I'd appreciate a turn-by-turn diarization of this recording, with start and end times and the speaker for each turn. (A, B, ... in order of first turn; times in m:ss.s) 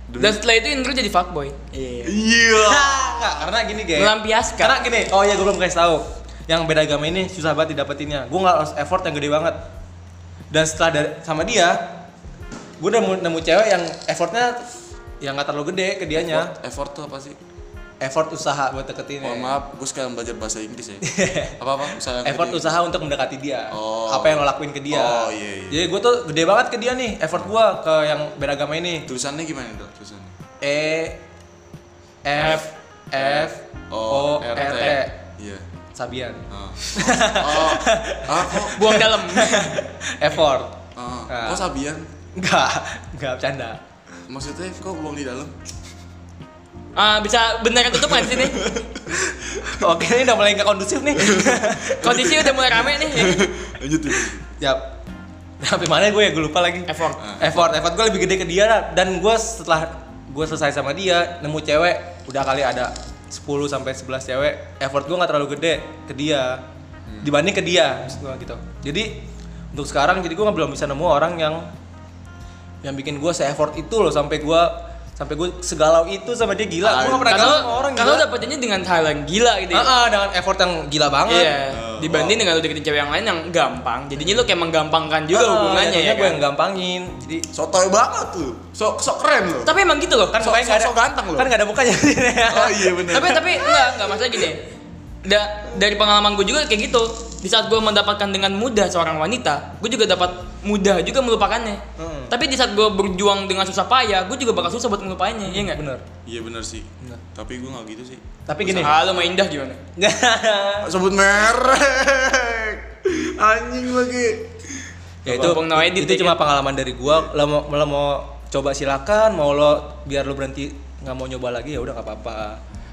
0:00.1-0:00.4 A
0:00.2-0:02.2 B
0:02.0-0:03.4 A
0:02.6-0:09.6 C
0:03.9-0:05.0 B
0:10.5-0:11.8 C
0:12.8-0:14.6 C
0:15.2-0:16.5 C
0:16.2-0:17.4 A
0:18.0-0:19.5 C
0:19.2-0:22.8 A
0:21.1-0:21.6 C
0:22.2-0:29.1 C
0:23.7-0:25.8 A
0:29.1-0:30.3 A
0:30.6-0:31.2 C
0:32.2-0:35.2 C
0:33.2-0:35.6 A
0:34.6-0:35.0 B
0:36.0-0:40.7 C
0:36.5-0:39.0 A
0:38.7-0:39.8 B
0:41.0-0:42.1 A
0:41.3-0:41.7 C
0:42.4-0:43.8 C
0:44.3-0:45.5 A
0:47.0-0:48.6 B
0:47.9-0:49.1 A
0:49.3-0:52.0 C
0:51.2-0:54.5 A
0:52.0-0:53.5 B
0:54.6-0:54.9 C
0:55.6-1:06.6 C
0:56.9-0:57.2 B
0:57.2-0:57.7 A
1:07.1-1:07.3 A
1:07.2-1:09.2 C
1:09.7-1:11.7 C
1:12.8-1:18.3 C
1:16.8-1:17.7 A
1:17.3-1:20.0 B
1:19.7-1:21.6 C
1:21.3-1:26.4 B
1:21.7-1:22.5 A
1:24.2-1:24.4 C
1:25.3-1:27.5 C
1:27.5-1:29.7 A
1:29.6-1:30.4 B
1:30.3-1:34.1 C
1:30.4-1:31.5 A
1:32.5-1:33.4 A
1:33.1-1:34.6 B
1:35.2-1:45.8 B
1:42.0-1:42.3 C
1:45.5-1:46.0 C
1:46.3-1:49.3 A
1:48.5-1:49.0 C
1:48.7-1:49.8 B
1:50.0-1:50.9 C
1:50.8-1:54.6 A
1:55.2-2:02.6 C
1:55.2-1:56.4 B